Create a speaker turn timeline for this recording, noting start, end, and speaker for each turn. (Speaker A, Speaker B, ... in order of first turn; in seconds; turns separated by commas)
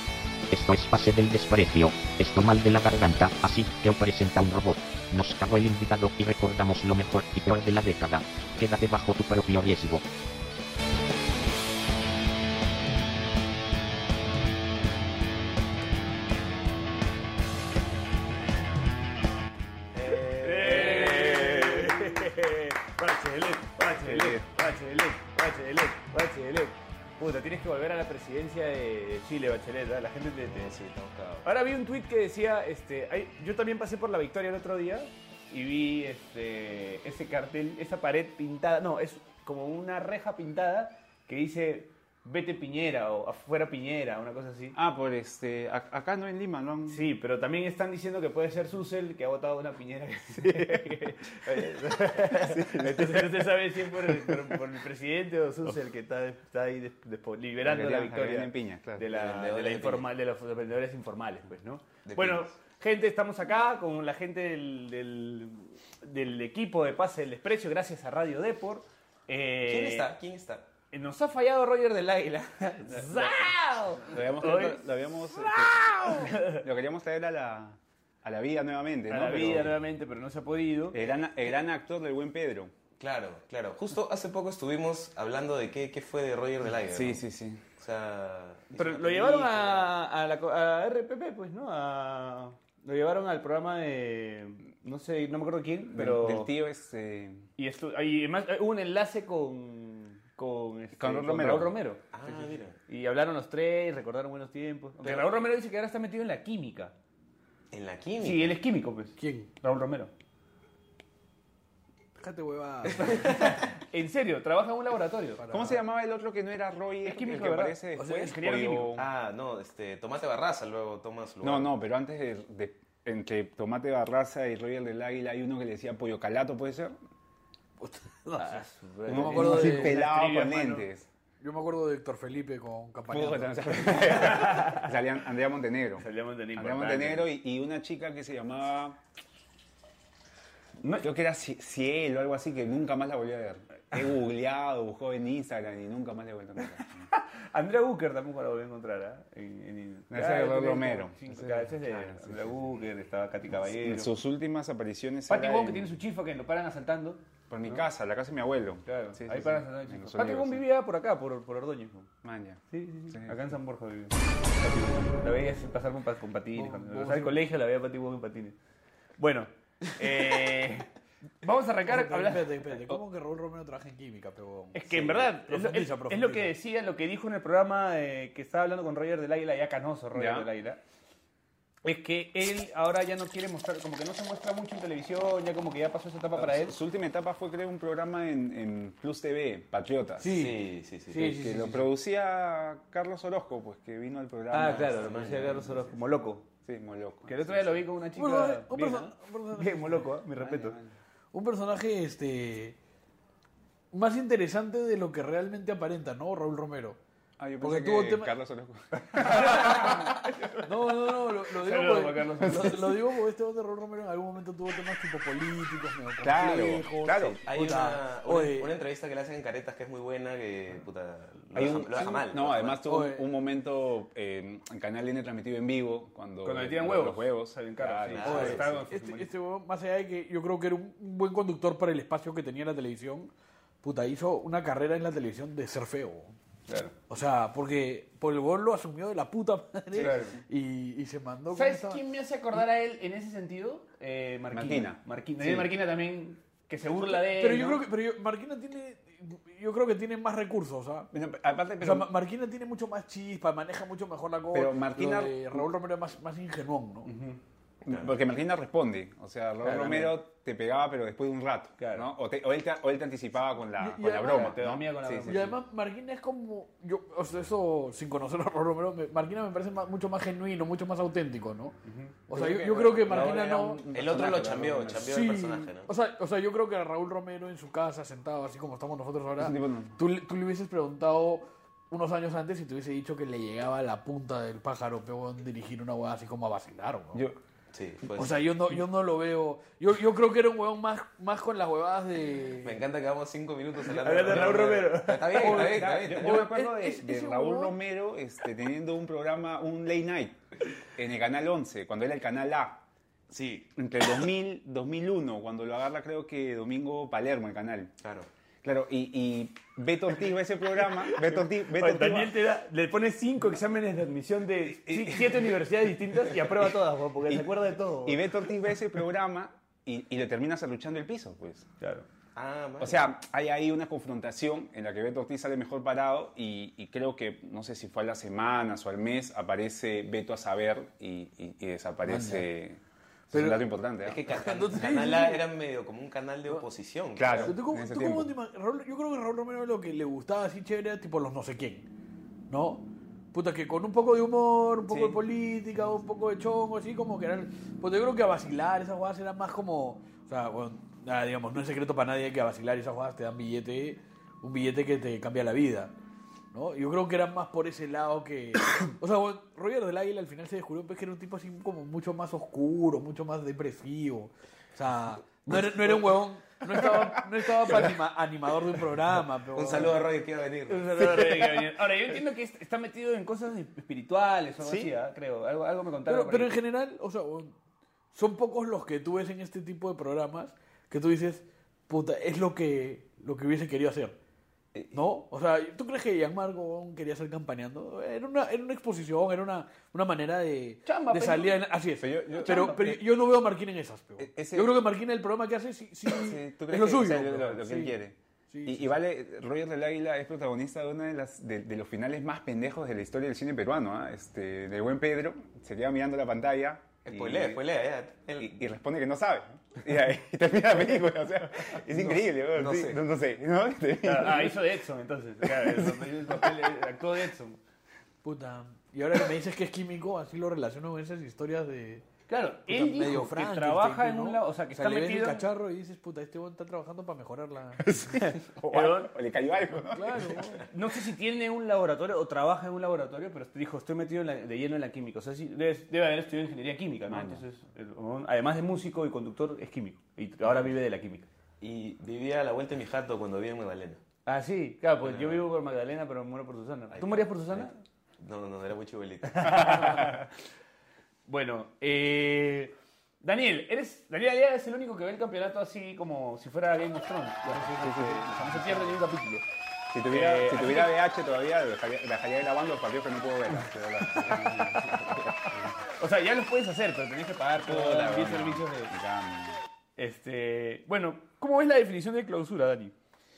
Speaker A: 0.5-10.0, Speaker B: 19.9-22.3, Speaker C: 20.1-30.8, Speaker D: 24.1-24.4, Speaker B: 30.5-31.4, Speaker C: 31.4-44.8, Speaker D: 44.7-47.0, Speaker C: 46.9-70.1, Speaker D: 52.4-53.5, Speaker D: 54.0-54.4, Speaker D: 57.6-59.1, Speaker B: 59.1-60.1, Speaker B: 62.0-62.5, Speaker B: 69.6-70.7, Speaker C: 70.9-76.6, Speaker D: 72.9-73.5, Speaker D: 74.0-79.8, Speaker C: 79.1-81.0, Speaker D: 80.9-82.7, Speaker B: 83.0-87.2, Speaker D: 86.9-87.6, Speaker B: 87.8-89.9, Speaker C: 88.8-96.5, Speaker D: 95.9-97.5, Speaker C: 97.6-106.9, Speaker D: 101.0-101.8, Speaker B: 102.1-102.8, Speaker B: 105.0-105.3, Speaker B: 107.7-108.6, Speaker C: 108.2-110.1, Speaker E: 109.2-109.5, Speaker E: 112.2-113.5, Speaker C: 112.9-115.4, Speaker E: 115.4-115.8, Speaker D: 115.5-119.1, Speaker C: 117.0-119.0, Speaker E: 118.0-118.4, Speaker B: 118.9-121.7, Speaker D: 121.4-127.0, Speaker E: 127.8-130.0, Speaker C: 128.3-130.9, Speaker D: 129.1-131.1, Speaker E: 131.4-134.2, Speaker D: 133.1-139.0, Speaker C: 134.2-134.9, Speaker C: 136.0-137.3, Speaker C: 140.8-141.1, Speaker D: 141.0-147.1, Speaker C: 147.1-154.1, Speaker D: 150.1-152.6, Speaker D: 153.7-155.9, Speaker C: 155.3-157.8, Speaker D: 157.5-160.6, Speaker C: 158.9-162.1, Speaker D: 162.2-163.3, Speaker C: 162.7-168.6, Speaker E: 166.5-167.4, Speaker C: 169.2-170.9, Speaker C: 171.4-172.7, Speaker E: 171.9-176.5, Speaker C: 174.7-180.8, Speaker D: 180.1-180.5, Speaker C: 181.8-186.8, Speaker D: 186.3-190.3, Speaker E: 190.2-191.9, Speaker B: 190.3-191.3, Speaker D: 191.2-195.2, Speaker C: 194.5-196.4, Speaker B: 194.6-196.0, Speaker D: 196.6-197.8, Speaker C: 197.2-200.8, Speaker E: 198.2-200.0, Speaker D: 200.4-200.9, Speaker E: 201.3-202.8, Speaker E: 203.9-207.0, Speaker D: 207.4-210.2, Speaker E: 207.6-208.3, Speaker C: 209.1-210.7, Speaker E: 209.7-209.9, Speaker E: 210.6-218.7, Speaker C: 211.2-212.9, Speaker D: 216.2-217.4, Speaker B: 217.2-222.8, Speaker D: 221.5-228.8, Speaker E: 222.8-223.2, Speaker C: 226.4-229.3, Speaker B: 228.1-228.6, Speaker E: 228.2-233.3, Speaker E: 233.8-236.3, Speaker C: 236.7-236.9, Speaker E: 237.1-242.0, Speaker C: 239.9-240.4, Speaker D: 240.0-240.3, Speaker C: 241.5-247.8, Speaker D: 244.5-245.7, Speaker E: 246.9-251.1, Speaker D: 251.1-252.1, Speaker E: 251.8-257.1, Speaker D: 254.5-255.7, Speaker C: 257.0-257.4, Speaker D: 257.9-265.5, Speaker B: 257.9-258.1, Speaker C: 259.6-260.2, Speaker C: 261.8-262.1, Speaker E: 263.8-264.5, Speaker C: 264.2-265.5, Speaker E: 265.2-271.8, Speaker C: 271.9-272.1, Speaker E: 272.3-273.8, Speaker D: 272.3-275.1, Speaker B: 273.9-275.9, Speaker E: 275.0-287.2, Speaker D: 279.4-280.0, Speaker B: 287.7-288.4, Speaker E: 288.1-292.8, Speaker B: 292.6-296.3, Speaker C: 293.8-296.5, Speaker D: 295.2-300.4, Speaker E: 295.4-297.8, Speaker D: 300.9-302.8, Speaker B: 303.3-303.7, Speaker D: 303.8-307.9, Speaker B: 308.0-308.3, Speaker D: 308.6-312.4, Speaker C: 310.9-318.5, Speaker D: 314.9-315.5, Speaker D: 317.3-321.7, Speaker C: 321.8-322.1, Speaker B: 322.3-323.1, Speaker D: 322.8-334.2, Speaker E: 332.1-332.5, Speaker E: 333.3-333.7, Speaker B: 334.0-337.5, Speaker E: 334.3-335.4, Speaker D: 337.1-338.3, Speaker E: 337.3-341.9, Speaker E: 342.5-355.9, Speaker D: 344.9-345.2, Speaker E: 356.5-370.0, Speaker D: 366.7-367.9, Speaker B: 369.5-370.9, Speaker C: 370.7-376.6, Speaker D: 371.1-371.7, Speaker D: 374.6-374.9, Speaker E: 376.1-377.6, Speaker E: 378.1-384.2, Speaker E: 384.9-398.0, Speaker C: 390.9-391.6, Speaker D: 392.0-393.0, Speaker C: 392.4-392.9, Speaker D: 394.2-394.8, Speaker D: 396.1-407.6, Speaker E: 398.5-399.0, Speaker B: 407.0-408.5, Speaker D: 408.4-414.6, Speaker B: 411.9-413.0, Speaker C: 414.0-417.6, Speaker D: 415.4-416.7, Speaker E: 418.2-422.1, Speaker C: 422.3-425.4, Speaker E: 422.7-427.8, Speaker D: 427.9-430.6, Speaker C: 428.1-429.1, Speaker E: 429.9-430.6, Speaker C: 430.7-441.3, Speaker D: 437.1-437.4, Speaker B: 441.6-444.0, Speaker C: 444.2-447.8, Speaker B: 445.0-445.4, Speaker B: 446.9-447.7, Speaker B: 448.2-450.2, Speaker C: 449.3-450.3, Speaker C: 451.3-459.4, Speaker D: 457.5-459.0, Speaker D: 459.9-465.8, Speaker C: 460.1-461.0, Speaker C: 464.0-468.9, Speaker D: 467.6-469.6, Speaker C: 470.0-472.9